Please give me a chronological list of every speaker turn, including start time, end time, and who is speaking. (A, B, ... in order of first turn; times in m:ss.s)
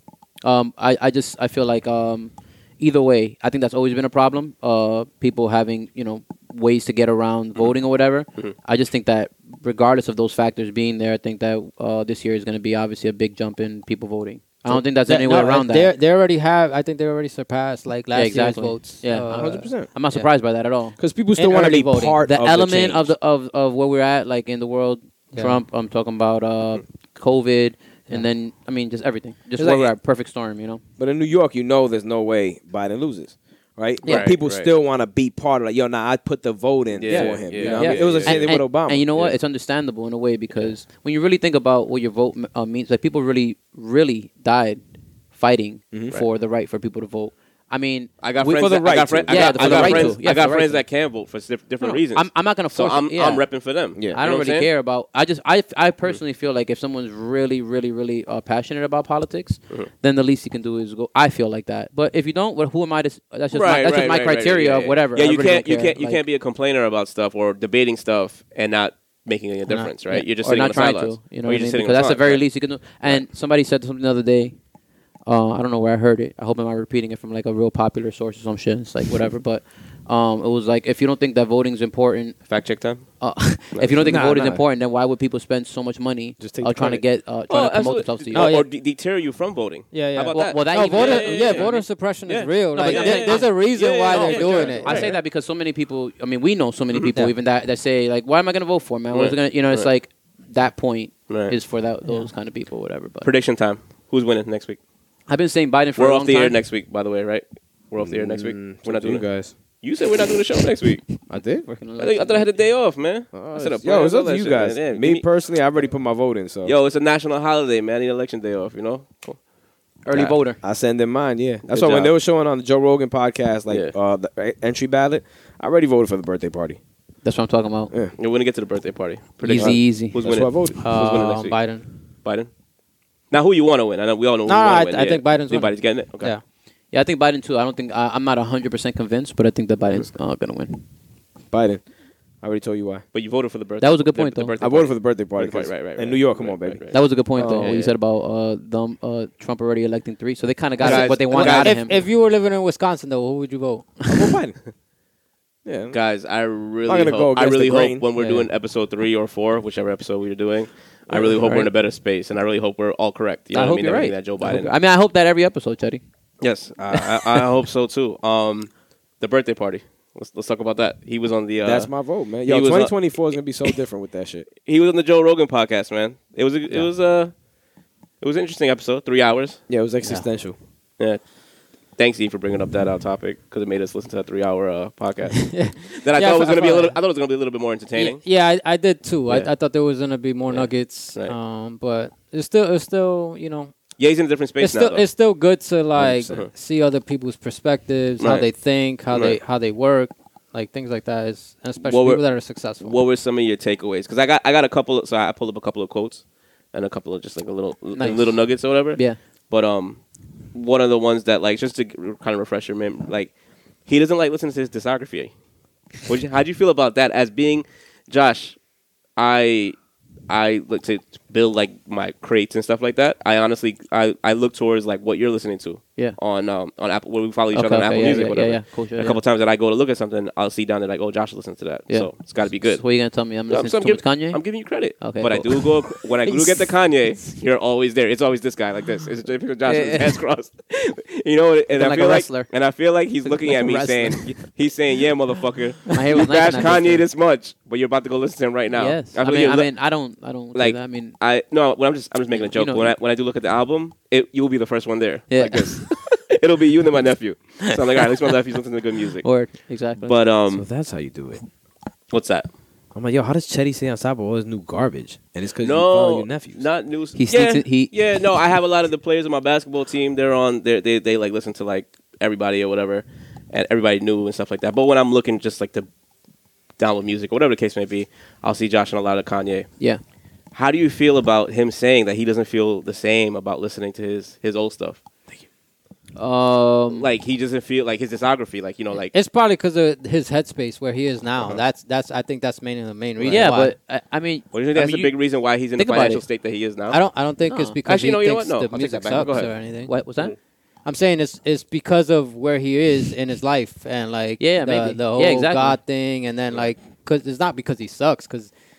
0:00.4-0:15.9 A
0:14.7-0:20.3 B
0:18.1-0:21.0 A
0:19.3-0:19.9 C
0:21.0-0:23.1 C
0:21.4-0:22.2 B
0:22.2-0:30.8 A
0:25.3-0:25.6 B
0:29.6-0:29.9 C
0:31.0-0:39.3 C
0:34.0-0:34.7 D
0:34.1-0:34.3 A
0:36.9-0:38.6 D
0:37.1-0:44.8 A
0:45.3-0:50.8 A
0:45.9-0:46.2 C
0:48.2-0:54.7 D
0:48.4-0:50.2 C
0:51.8-0:53.5 A
0:54.0-0:54.2 C
0:54.1-1:06.2 A
1:03.5-1:13.2 D
1:09.7-1:09.9 B
1:10.1-1:14.6 A
1:15.2-1:22.5 A
1:22.5-1:24.3 D
1:23.2-1:28.5 A
1:24.0-1:24.6 C
1:26.4-1:27.0 C
1:27.5-1:35.2 D
1:28.3-1:28.7 B
1:29.9-1:35.1 B
1:30.3-1:31.8 A
1:32.8-1:33.5 A
1:34.1-1:43.3 A
1:39.1-1:39.9 D
1:41.3-1:41.6 D
1:42.0-1:42.3 B
1:43.2-1:44.8 D
1:45.3-1:46.6 A
1:46.0-1:49.3 D
1:48.0-1:49.5 C
1:49.8-1:51.0 D
1:51.3-1:51.7 C
1:51.7-1:52.5 A
1:52.0-1:55.3 D
1:53.3-1:56.8 C
1:56.6-1:59.4 D
2:00.1-2:00.6 A
2:00.1-2:00.4 D
2:00.6-2:06.8 C
2:01.7-2:02.1 D
2:07.2-2:07.9 A
2:08.2-2:12.5 D
2:09.4-2:10.2 A
2:09.5-2:10.9 C
2:10.8-2:11.9 B
2:13.3-2:16.3 D
2:14.5-2:16.4 B
2:16.9-2:20.8 A
2:21.5-2:21.8 C
2:22.4-2:23.0 C
2:23.1-2:28.0 D
2:23.8-2:24.5 A
2:24.6-2:27.8 C
2:26.9-2:32.0 A
2:30.8-2:34.0 B
2:30.8-2:31.9 D
2:34.1-2:34.6 C
2:35.6-2:36.0 C
2:35.9-2:44.7 D
2:36.9-2:38.0 C
2:38.2-2:38.5 B
2:41.1-2:41.4 C
2:41.4-2:41.7 A
2:43.5-2:46.0 A
2:46.4-2:51.9 D
2:46.8-2:47.1 C
2:51.6-2:54.5 C
2:52.5-2:53.2 D
2:54.6-2:57.3 D
2:58.2-2:59.6 D
2:59.7-3:00.6 C
3:02.0-3:08.2 D
3:05.4-3:07.0 B
3:08.0-3:13.7 B
3:10.5-3:11.4 D
3:14.0-3:15.1 D
3:14.6-3:23.0 B
3:16.0-3:16.4 C
3:18.2-3:18.5 D
3:19.1-3:19.4 D
3:21.8-3:22.2 D
3:22.8-3:30.0 D
3:28.0-3:28.4 A
3:30.5-3:33.3 D
3:33.9-3:35.3 D
3:36.0-3:38.6 D
3:39.2-3:39.8 D
3:40.3-4:09.9 D
3:47.5-3:49.2 A
3:51.9-3:56.7 A
3:59.6-4:00.2 A
4:01.7-4:02.5 A
4:03.2-4:04.4 A
4:05.9-4:07.0 A
4:08.7-4:11.2 A
4:10.5-4:20.7 D
4:12.3-4:12.9 A
4:15.3-4:16.1 A
4:19.2-4:20.2 A
4:20.5-4:21.4 C
4:22.1-4:22.5 D
4:22.9-4:26.6 C
4:25.6-4:35.9 D
4:27.2-4:28.0 A
4:36.8-4:39.7 D
4:40.5-4:45.0 D
4:46.2-4:47.1 A
4:46.9-4:49.1 D
4:49.1-4:53.8 B
4:53.2-4:53.5 D
4:53.2-4:55.1 A
4:54.5-4:57.0 D
4:55.8-4:56.2 A
4:56.9-4:59.9 B
4:57.5-4:57.8 A
4:57.8-4:59.6 D
4:59.8-5:00.4 A
5:00.8-5:08.5 B
5:04.4-5:05.8 A